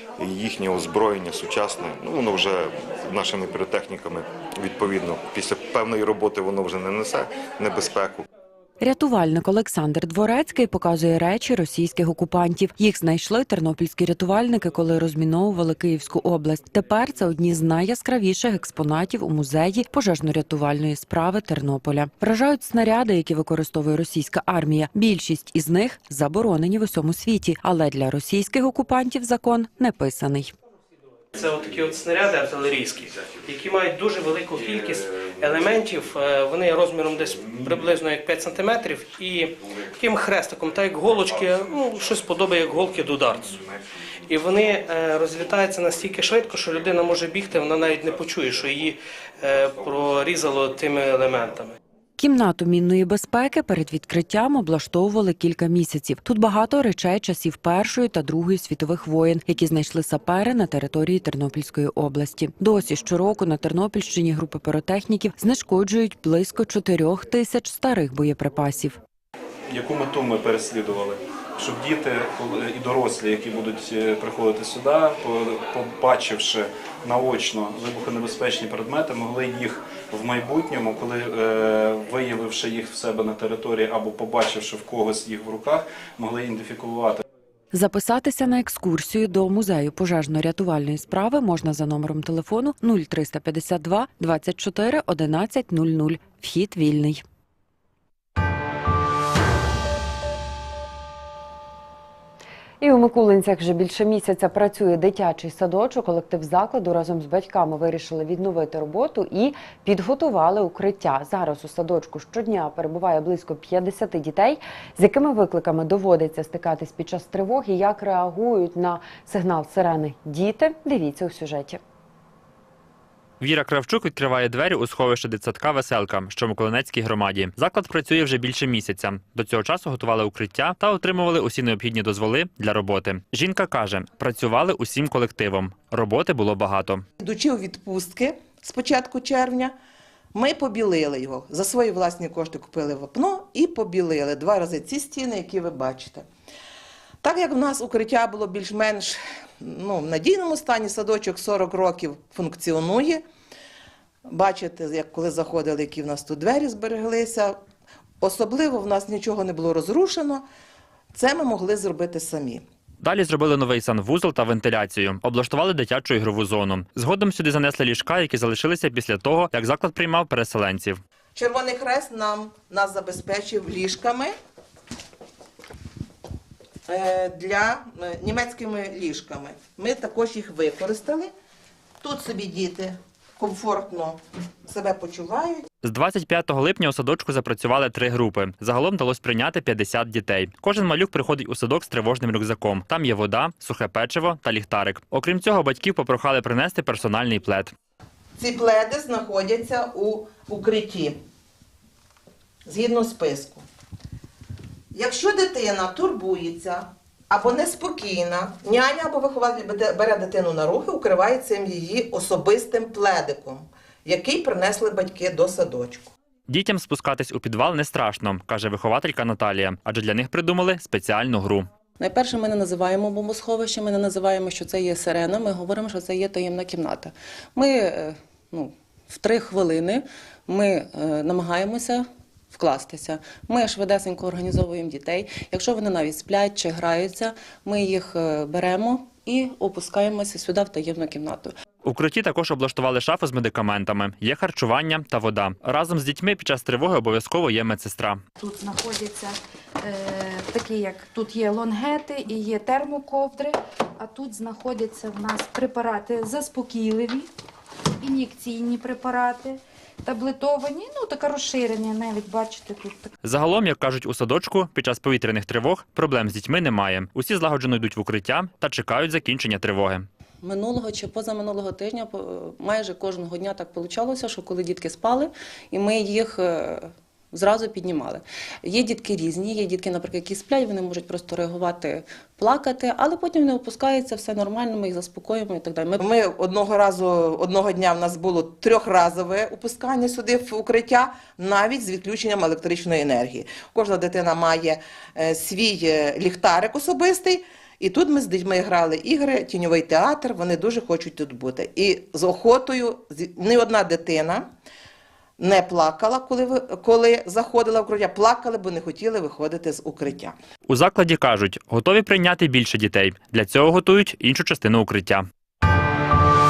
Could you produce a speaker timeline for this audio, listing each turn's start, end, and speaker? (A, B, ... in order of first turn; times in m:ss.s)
0:00.2-0:08.2 A
0:08.8-0:30.5 B
0:31.4-0:43.6 C
0:44.3-0:51.8 C
0:52.2-1:09.0 B
1:09.7-1:27.2 D
1:27.7-1:37.2 B
1:42.8-2:01.8 B
2:03.4-2:17.0 E
2:17.2-2:19.8 F
2:20.3-2:26.3 F
2:27.2-2:33.2 F
2:34.3-2:37.6 F
2:38.2-2:40.4 F
2:41.1-2:42.6 F
2:43.0-2:51.0 E
2:51.4-2:54.3 F
2:56.9-3:01.3 F
3:02.0-3:05.6 F
3:05.8-3:17.7 E
3:18.4-3:21.2 F
3:22.6-3:23.6 F
3:24.9-3:36.1 F
3:36.5-3:41.7 E
3:42.0-4:01.5 G
4:01.8-4:08.2 E
4:08.4-4:17.3 H
4:18.0-4:23.1 H
4:23.2-4:30.1 E
4:30.4-4:46.1 G
4:46.0-5:04.5 F
5:05.4-5:10.4 F
5:10.7-5:15.2 E